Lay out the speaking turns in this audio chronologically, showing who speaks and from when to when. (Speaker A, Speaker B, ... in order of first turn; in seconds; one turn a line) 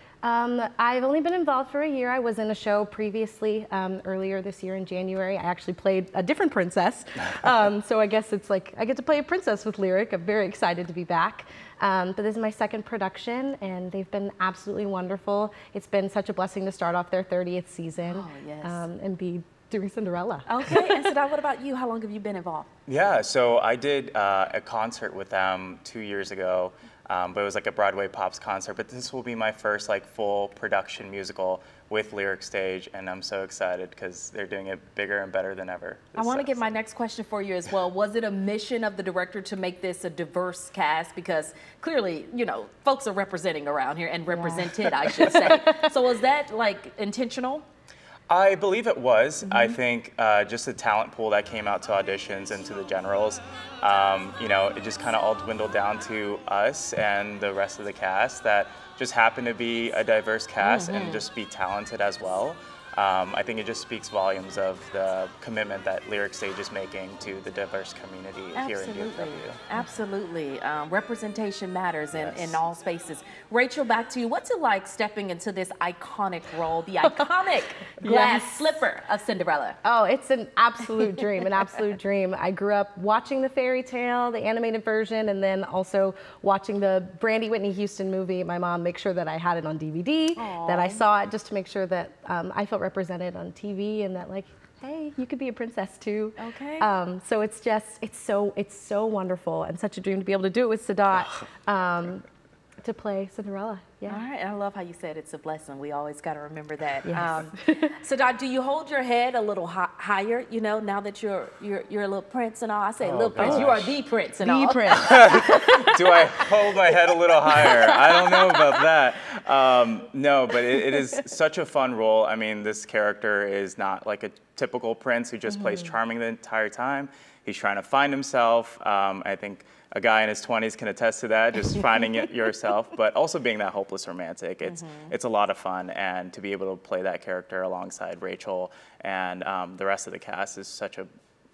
Speaker A: 0.2-20.9
Speaker B: 18.0-18.9
Speaker B: 20.5-22.7
Speaker C: 22.9-36.8
Speaker B: 36.1-47.6
Speaker A: 44.3-45.9
Speaker C: 48.3-69.6
Speaker A: 49.5-49.8
Speaker B: 60.6-61.2
Speaker B: 68.5-79.8
Speaker C: 72.1-72.6
Speaker A: 78.0-78.8
Speaker A: 79.8-102.2
Speaker B: 90.3-91.0
Speaker B: 96.4-96.9
Speaker A: 102.8-104.2
Speaker B: 104.1-115.9
Speaker A: 107.0-107.9
Speaker C: 113.0-113.9
Speaker A: 113.4-113.8
Speaker A: 114.4-115.7
Speaker C: 115.0-141.1
Speaker B: 117.5-118.7
Speaker B: 125.5-125.8
Speaker B: 134.6-135.1